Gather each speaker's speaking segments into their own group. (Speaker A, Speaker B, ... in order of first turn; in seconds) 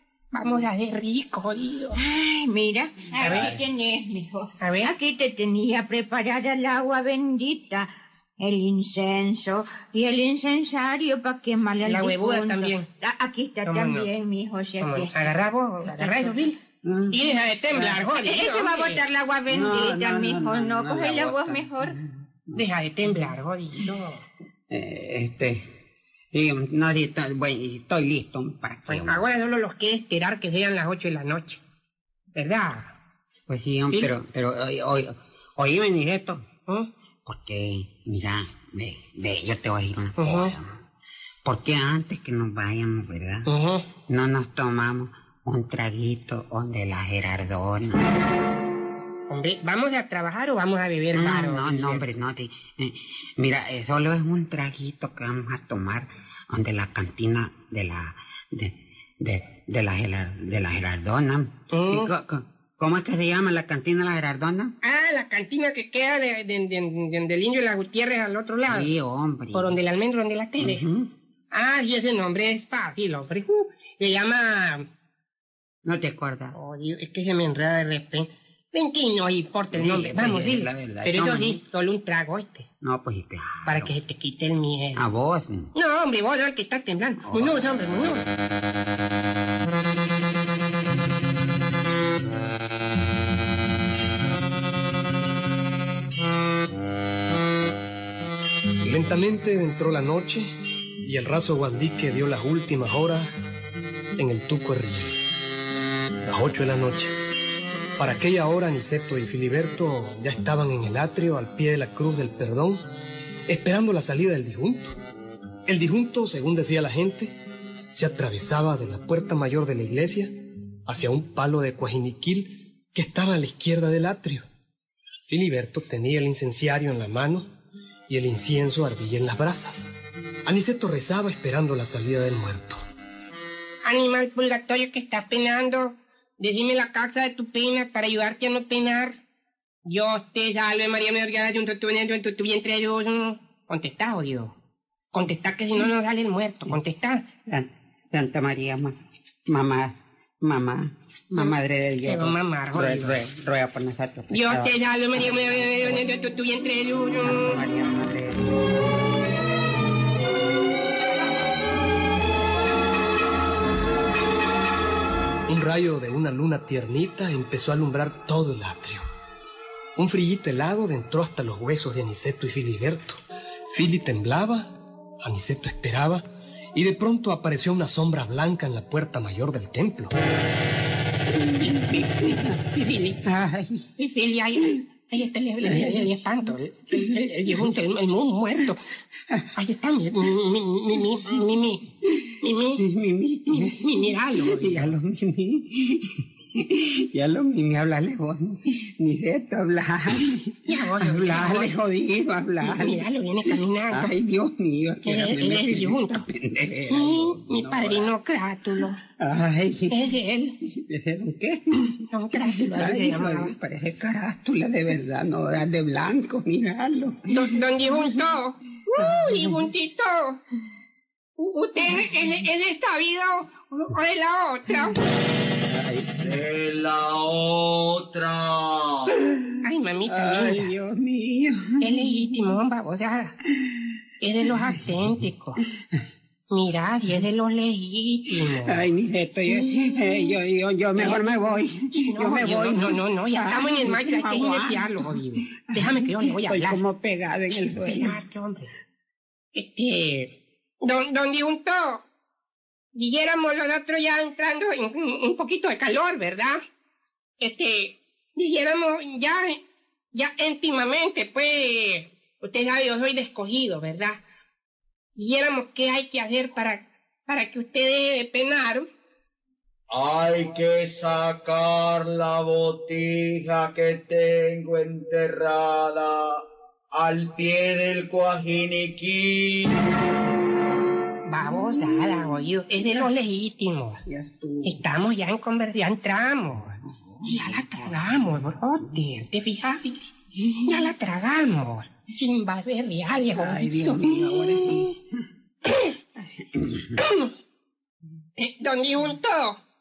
Speaker A: 0.3-2.0, 3.2-3.6, 4.6-4.9, 11.8-12.9, 13.6-14.1, 14.8-16.6, 17.1-19.0, 22.5-24.2, 28.9-31.6, 32.4-32.9, 40.2-40.5, 43.5-43.8, 49.3-52.0, 61.7-62.1, 64.8-68.9, 69.5-70.8, 71.5-74.8, 76.5-82.7, 83.7-85.0, 85.7-88.2, 133.8-139.2, 139.8-144.5, 145.1-147.2, 152.1-153.2, 154.3-157.6, 184.0-188.8, 189.5-191.9, 192.4-192.8, 193.6-194.9, 200.7-201.7, 202.6-204.1, 205.1-206.2, 206.9-209.0, 209.9-210.6, 212.1-213.5, 217.3-220.4, 221.4-225.0, 229.6-230.7, 231.8-233.3, 234.2-235.6, 236.5-238.8, 242.1-246.8, 247.8-248.7, 249.5-252.0, 252.9-256.6, 257.4-259.6, 260.1-264.2, 265.1-268.9, 281.3-284.0, 284.6-294.6, 297.0-297.3, 298.4-299.6
Speaker B: 1.9-16.4, 18.1-22.0
Speaker C: 16.8-17.2, 17.7-18.1, 19.5-22.6, 24.7-25.6, 26.3-29.2, 33.5-36.4, 37.2-40.8, 41.4-43.5, 44.1-48.0, 51.1-64.7, 68.7-69.8, 70.6-71.1, 75.8-76.5, 79.7-81.6, 82.8-83.9, 85.0-85.7, 87.2-87.6, 147.5-148.9, 149.5-156.1, 157.2-158.5, 181.3-183.9, 185.6-186.1, 186.9-187.7, 192.8-208.1, 209.2-210.0, 210.7-218.2, 219.0-219.6, 225.6-226.1, 229.1-232.0, 238.3-248.2, 281.8-283.0, 284.1-284.8, 293.3-295.0, 296.6-297.0
Speaker D: 98.8-100.5, 101.0-103.3, 104.2-105.2, 106.2-107.1, 108.0-112.8, 113.5-114.9, 115.7-117.3, 117.9-120.3, 120.8-124.5, 125.3-127.5, 128.1-129.9, 130.4-132.8, 165.5-169.0, 169.9-180.1
Speaker E: 226.2-229.1, 269.9-276.4, 276.9-279.8